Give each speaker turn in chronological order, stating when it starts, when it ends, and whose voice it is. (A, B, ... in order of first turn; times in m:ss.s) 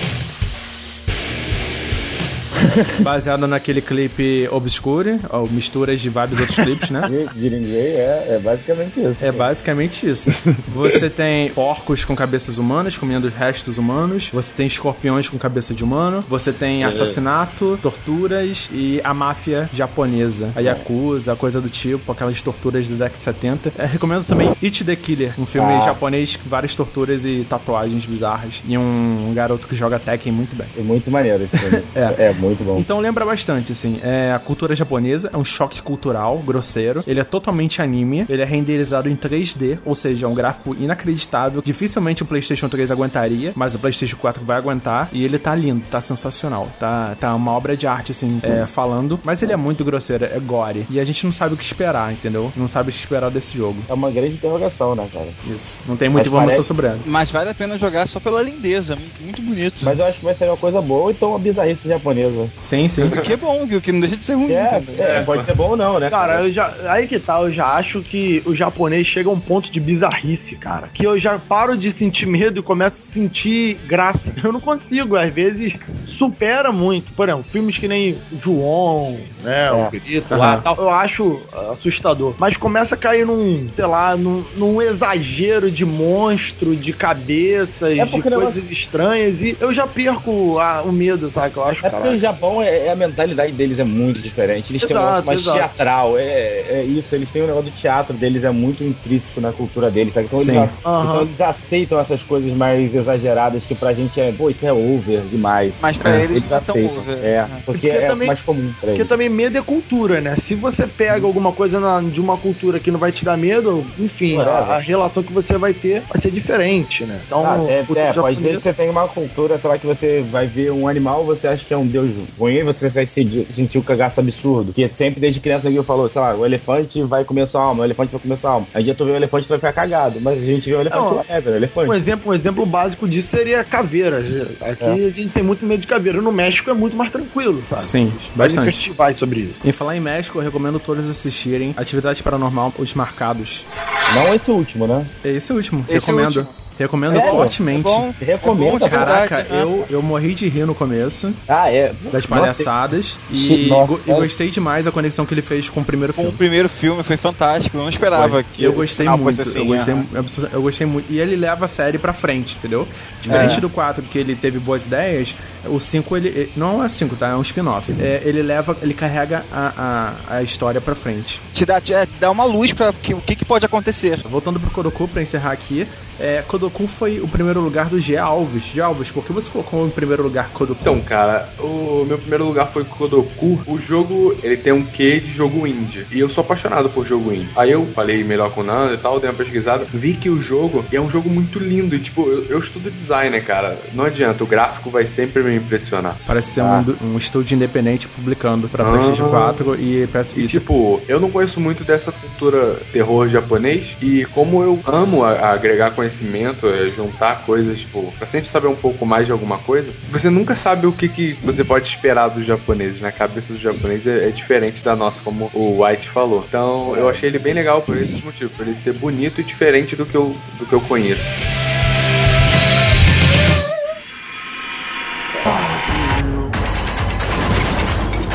0:03.0-0:07.1 A
0:07.0-0:09.4 B
0:09.2-0:30.7 A
0:10.5-0:11.0 B
0:16.8-0:17.2 B
0:20.6-0:20.8 B
0:25.5-0:26.0 B
0:30.8-0:32.8 B
0:31.6-0:32.2 A
0:32.7-0:53.9 A
0:53.9-0:55.4 B
0:55.4-0:57.0 A
0:56.1-0:56.8 B
0:57.0-1:00.0 C
0:59.8-1:02.5 B
1:02.6-1:03.2 A
1:03.1-1:05.3 C
1:04.5-1:06.4 B
1:06.1-1:32.2 D
1:19.7-1:20.0 B
1:20.3-1:20.7 A
1:28.0-1:28.6 B
1:31.8-1:49.1 B
1:34.8-1:35.7 D
1:40.3-1:40.7 A
1:40.8-1:41.3 D
1:45.8-1:47.6 C
1:47.7-1:48.3 D
1:48.9-1:58.6 D
1:54.3-1:54.8 B
1:57.4-2:12.0 B
2:10.9-2:11.2 D
2:11.8-2:19.6 D
2:17.8-2:18.8 A
2:19.6-2:23.6 A
2:24.1-2:25.1 B
2:25.2-2:28.1 A
2:25.9-2:26.5 C
2:27.0-2:27.6 B
2:27.0-2:29.8 C
2:28.2-2:29.2 B
2:28.8-2:31.4 A
2:31.5-2:32.7 B
2:32.1-2:36.4 A
2:33.3-2:34.3 B
2:36.2-2:40.0 C
2:38.1-2:51.4 A
2:43.2-2:43.6 B
2:43.3-2:43.6 C
2:51.5-2:54.2 C
2:54.2-3:01.0 A
3:00.8-3:16.2 E
3:16.2-3:20.6 A
3:16.6-3:16.9 B
3:18.8-3:19.7 E
3:20.3-3:41.3 E
3:36.8-3:37.6 B